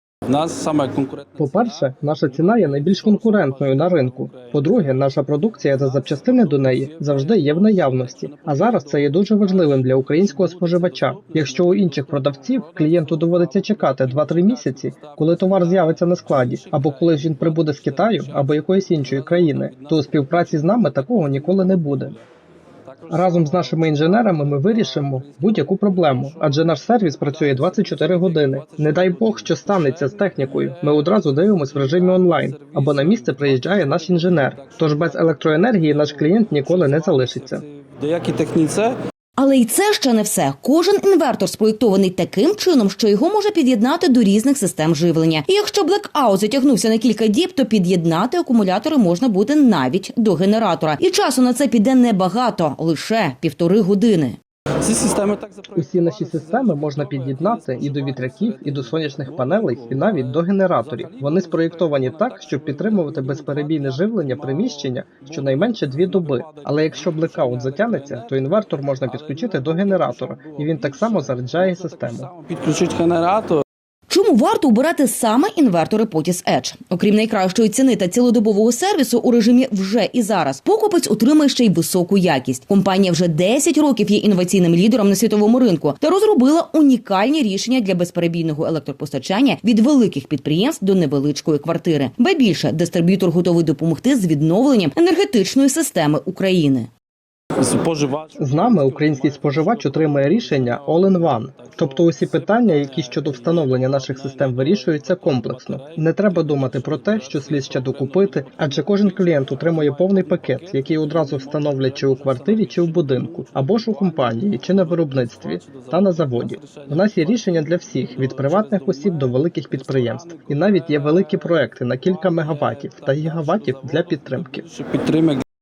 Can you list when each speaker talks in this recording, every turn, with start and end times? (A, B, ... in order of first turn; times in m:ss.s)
0:00.3-0:01.3 A
0:01.4-0:22.2 B
0:23.1-0:37.6 B
0:38.0-0:39.0 A
0:39.4-0:54.4 C
0:54.8-0:55.6 A
0:55.7-1:12.3 B
1:12.3-1:13.6 A
1:14.1-1:36.9 C
1:37.6-1:38.3 A
1:38.4-2:04.7 B
2:04.7-2:05.4 A